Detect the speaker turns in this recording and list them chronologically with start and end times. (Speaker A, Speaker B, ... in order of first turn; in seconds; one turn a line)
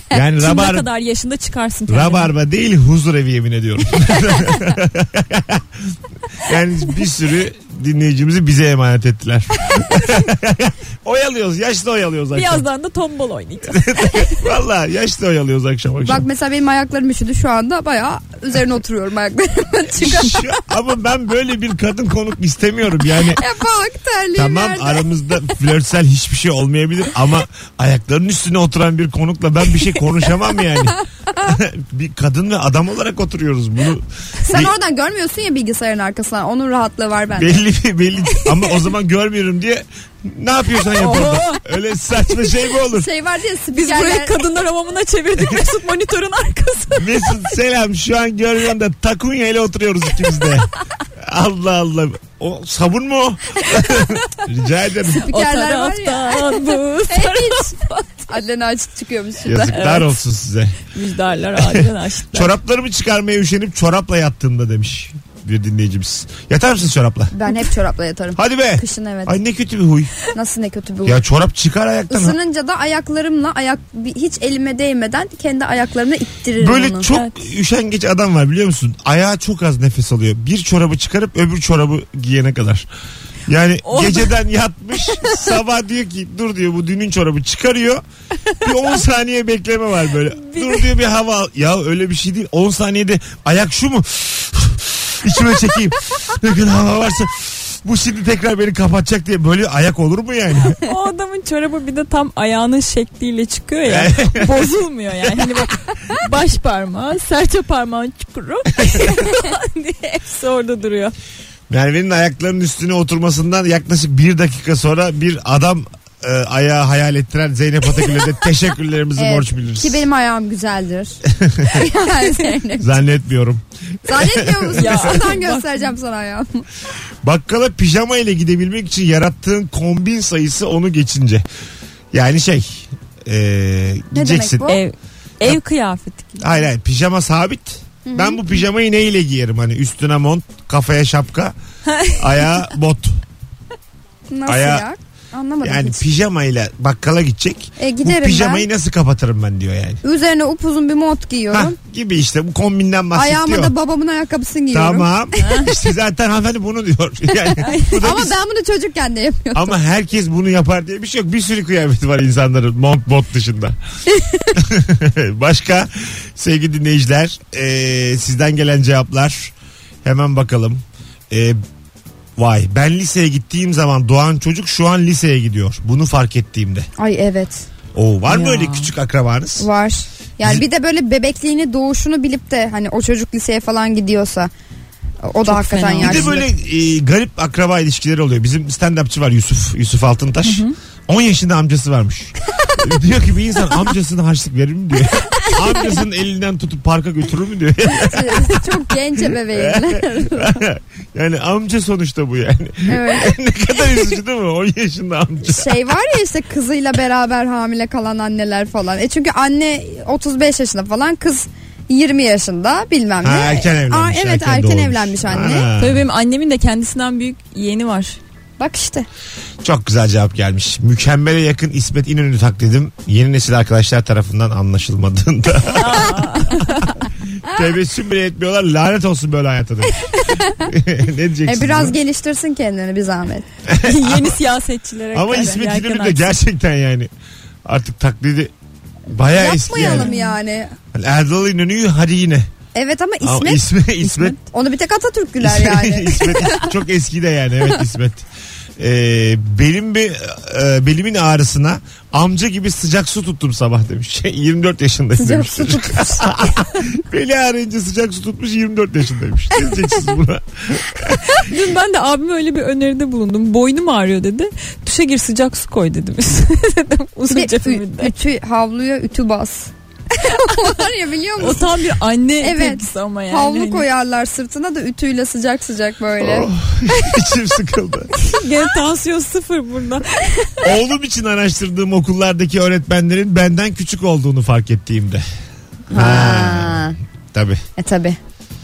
Speaker A: 0.1-0.9
Speaker B: 0.4-2.3
Speaker A: 1.9-12.7
Speaker B: 12.3-14.4
Speaker A: 13.7-16.2
Speaker C: 16.0-20.4
Speaker A: 20.0-23.4
Speaker C: 23.3-25.1
Speaker A: 24.4-34.7
Speaker C: 34.5-37.6
Speaker A: 37.4-43.1
Speaker B: 40.9-41.6
Speaker C: 42.9-44.4
Speaker B: 43.7-47.4
Speaker A: 47.0-55.3
Speaker C: 55.1-59.9
Speaker B: 55.2-58.0
Speaker A: 59.5-60.8
Speaker B: 59.7-60.2
Speaker B: 60.9-62.5
Speaker A: 61.6-67.3
Speaker C: 67.3-69.4
Speaker A: 68.4-70.2
Speaker C: 70.3-71.2
Speaker A: 71.0-72.4
Speaker C: 72.1-77.1
Speaker A: 76.6-82.9
Speaker B: 77.1-77.3
Speaker A: 83.5-88.0
Speaker B: 83.8-84.4
Speaker A: 88.6-100.8
Speaker B: 90.3-90.9
Speaker B: 100.8-111.2
Speaker A: 103.9-104.7
Speaker A: 111.7-120.0
Speaker C: 119.2-123.0
Speaker A: 121.2-121.8
Speaker A: 122.8-125.2
Speaker C: 124.1-126.7
Speaker B: 124.8-125.9
Speaker A: 127.2-131.4
Speaker A: 132.1-134.7
Speaker C: 134.1-134.8
Speaker B: 134.7-136.6
Speaker A: 136.4-141.5
Speaker C: 138.0-138.4
Speaker B: 141.9-142.2
Speaker A: 142.1-143.2
Speaker C: 144.3-146.0
Speaker A: 144.5-144.9
Speaker A: 145.6-150.0
Speaker C: 147.8-148.7
Speaker C: 150.0-151.8
Speaker A: 151.5-153.7
Speaker C: 153.1-155.1
Speaker A: 154.7-158.3
Speaker B: 155.4-155.7
Speaker C: 157.5-159.8
Speaker B: 157.6-158.0
Speaker A: 159.5-163.8
Speaker A: 164.5-171.6
Speaker A: 172.4-176.9
Speaker C: 177.0-177.7
Speaker A: 177.9-179.7
Speaker B: 178.3-178.9
Speaker C: 179.6-184.5
Speaker C: 185.2-186.5
Speaker B: 185.5-186.4
Speaker A: 186.0-198.8
Speaker B: 190.4-190.8
Speaker C: 197.9-200.6
Speaker A: 199.3-205.8
Speaker C: 202.9-203.4
Speaker C: 205.4-215.7
Speaker A: 213.2-216.0
Speaker B: 215.8-218.2
Speaker C: 218.6-219.1
Speaker A: 219.6-226.9
Speaker B: 225.7-227.0
Speaker A: 227.4-232.0
Speaker C: 230.3-230.7
Speaker C: 231.4-233.4
Speaker A: 233.7-234.4
Speaker B: 233.8-236.4
Speaker A: 235.1-237.1
Speaker A: 237.7-238.5
Speaker A: 239.1-240.1
Speaker C: 239.3-240.7
Speaker B: 239.8-240.3
Speaker A: 240.9-242.5
Speaker C: 242.8-243.6
Speaker A: 243.2-244.4
Speaker C: 244.4-246.7
Speaker A: 245.4-248.2
Speaker A: 248.8-261.5
Speaker C: 255.2-256.4
Speaker B: 261.3-268.1
Speaker C: 267.3-271.7
Speaker B: 270.3-270.7
Speaker B: 271.4-273.9
Speaker C: 272.4-276.5
Speaker A: 276.2-278.1
Speaker B: 278.2-280.7
Speaker A: 280.6-285.2
Speaker C: 285.9-287.0
Speaker A: 285.9-287.6
Speaker C: 287.8-288.2